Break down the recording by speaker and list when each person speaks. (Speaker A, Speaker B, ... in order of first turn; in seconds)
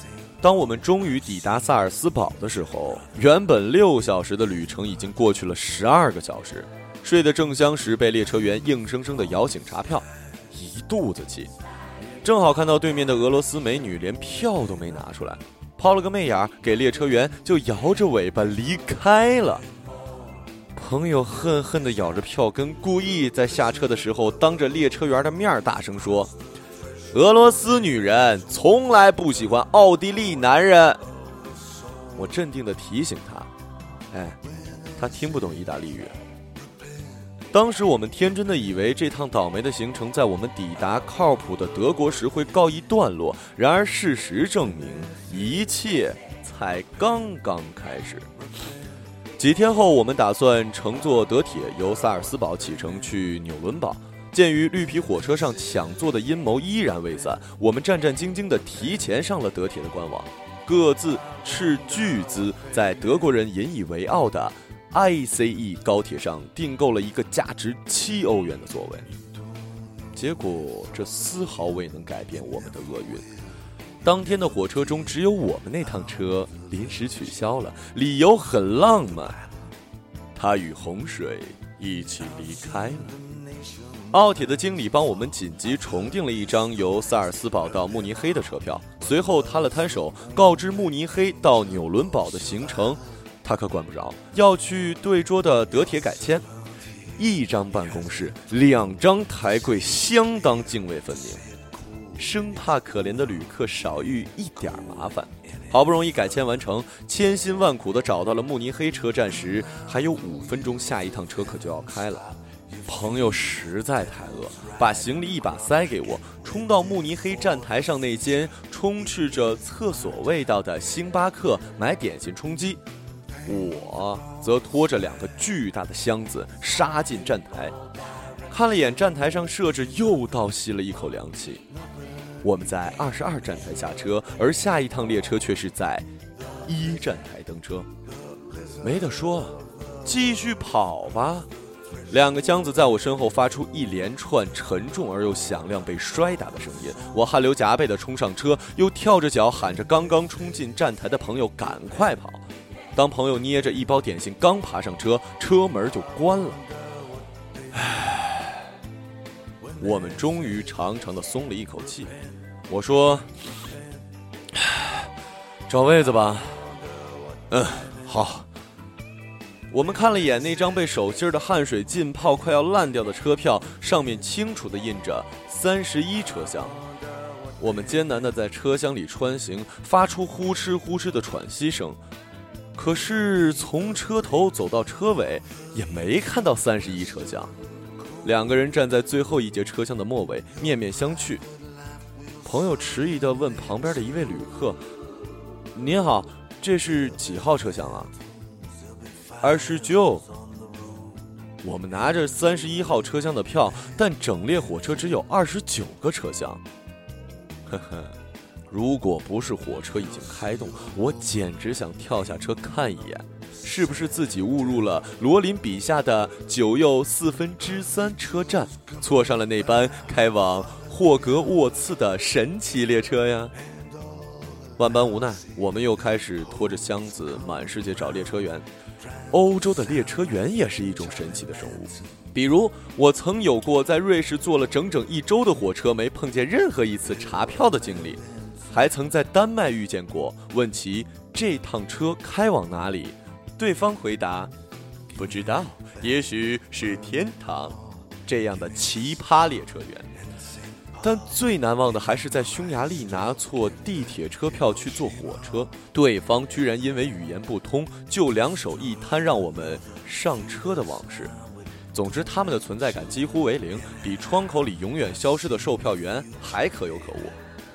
Speaker A: 0.4-11.5, 12.2-19.6, 20.7-26.3, 27.1-31.0, 32.1-33.5, 34.1-34.4, 35.0-36.1, 37.5-48.3, 49.4-69.1, 70.1-73.3, 74.0-79.4, 80.3-83.2, 84.1-96.5, 97.2-101.4, 102.2-112.3, 112.8-122.8, 123.4-127.7, 128.5-131.6, 132.4-136.1, 136.6-137.9, 138.8-141.5, 142.1-152.4, 152.9-156.6, 157.7-158.7, 159.8-162.2, 162.7-163.4, 164.5-165.1, 165.7-166.8, 167.5-168.5, 169.7-176.8, 177.6-182.0, 182.7-187.5, 188.2-191.4, 192.4-194.8, 195.7-198.1, 199.4-200.3, 201.6-206.6, 207.7-208.1, 208.7-223.5, 224.8-228.7, 229.3-244.5, 245.1-250.1, 251.0-261.4, 261.9-267.3